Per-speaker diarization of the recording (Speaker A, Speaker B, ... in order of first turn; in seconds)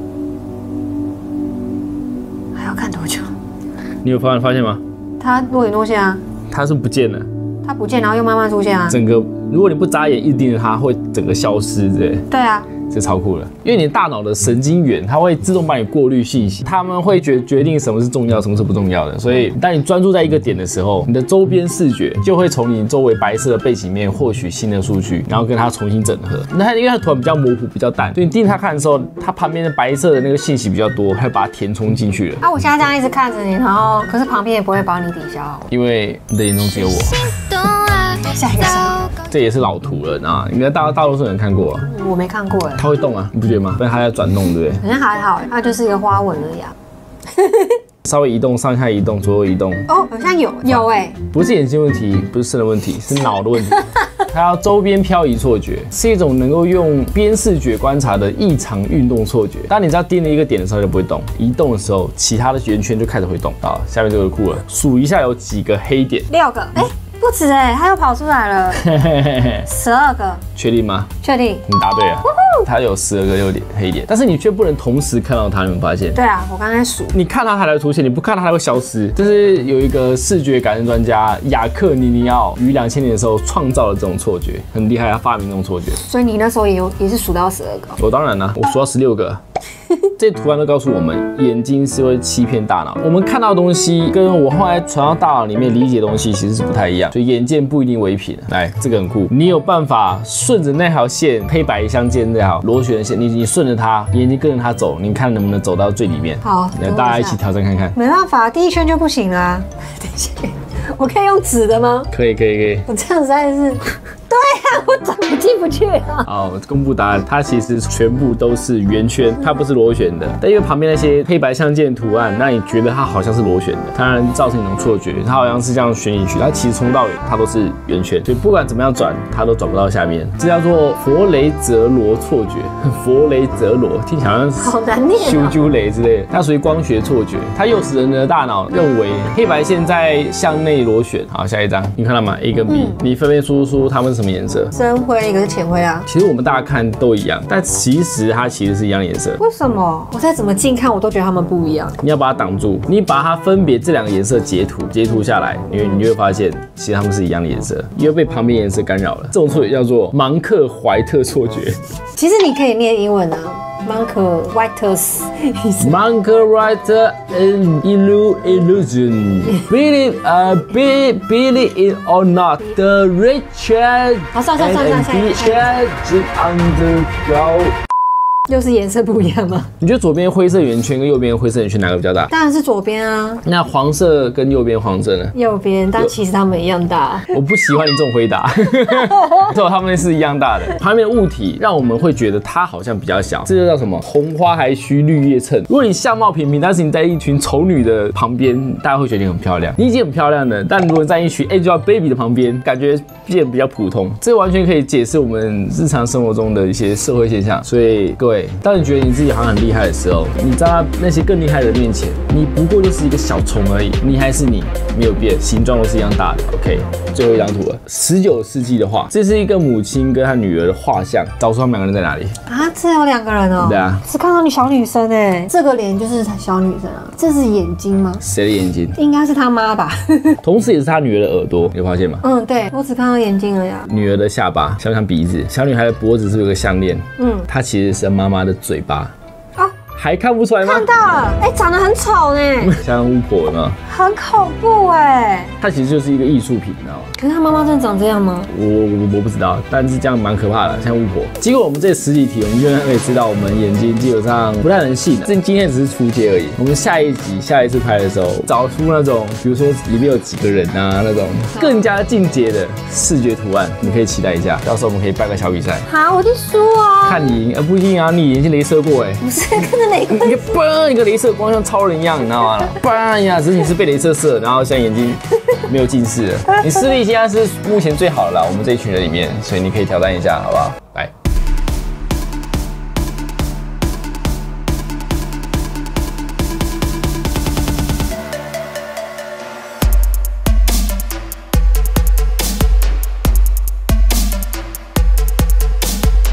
Speaker A: 2.5-3.3, 5.2-6.2, 7.6-9.0, 12.3-12.7, 32.4-35.7, 37.4-39.2, 41.9-42.9, 44.8-46.7, 47.3-47.8, 49.9-51.2, 53.8-54.0, 66.3-68.9, 69.6-70.4, 71.2-71.7, 72.2-72.7, 76.1-77.2, 86.0-88.0, 106.4-107.4, 107.9-112.1, 112.9-116.3, 134.6-135.6, 142.7-143.0, 144.7-146.1, 149.4-152.0, 162.2-165.9, 174.3-175.8, 178.5-179.7, 182.3-183.4, 185.3-187.3, 188.9-189.4, 222.5-228.2, 228.9-230.4, 232.2-233.9, 237.2-237.5, 240.6-242.7, 243.8-245.5, 247.2-248.5, 265.9-267.4, 269.2-270.5
Speaker B: 4.0-4.8, 6.5-7.3, 8.9-12.3, 12.8-32.4, 35.7-37.3, 39.2-41.9, 42.8-44.8, 48.0-49.9, 50.6-66.3, 68.7-69.7, 70.5-71.1, 71.7-76.2, 77.1-86.0, 88.0-89.4, 90.2-108.0, 112.1-112.9, 116.2-144.7, 146.1-149.4, 152.0-161.8, 165.8-177.8, 179.8-182.3, 183.4-185.3, 187.3-222.3, 223.6-224.0, 228.2-229.0, 230.4-232.2, 233.9-239.1, 239.9-240.9, 242.6-243.8, 245.6-247.1, 248.5-265.9, 267.0-269.3, 270.1-281.1